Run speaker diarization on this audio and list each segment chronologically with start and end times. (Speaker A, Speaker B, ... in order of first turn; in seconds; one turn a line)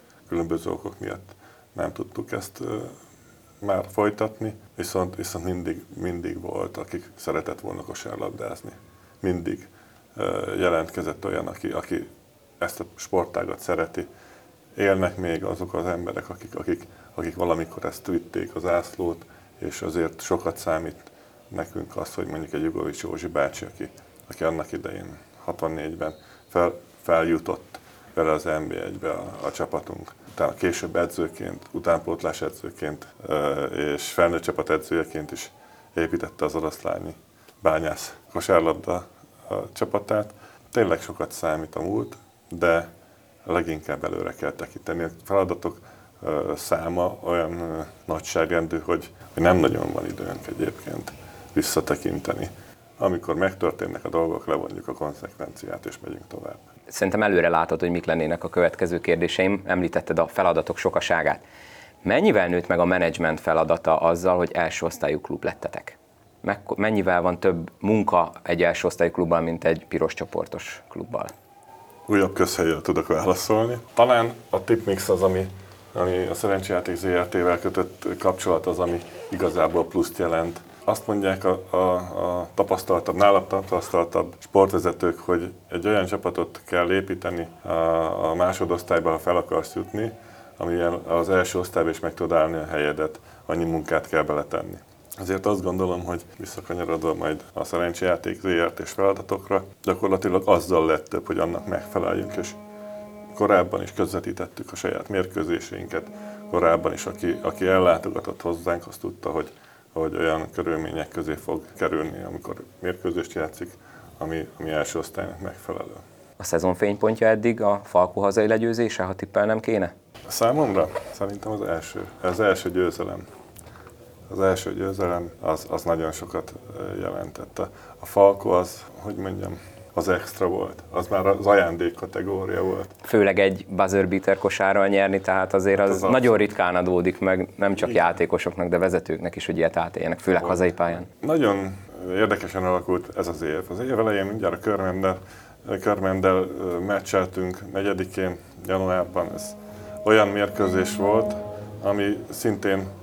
Speaker A: 0.3-3.0
Speaker A: 3.6-12.1
Speaker A: 12.6-14.1
Speaker A: 14.8-42.9
Speaker A: 43.5-56.6
Speaker B: 56.9-61.4
Speaker B: 62.0-71.3
Speaker A: 72.1-102.6
Speaker A: 103.3-116.0
Speaker B: 116.4-119.9
Speaker A: 120.3-123.2
Speaker A: 124.3-132.9
Speaker B: 133.0-141.1
Speaker A: 135.8-136.3
Speaker A: 137.8-138.1
Speaker A: 141.1-152.9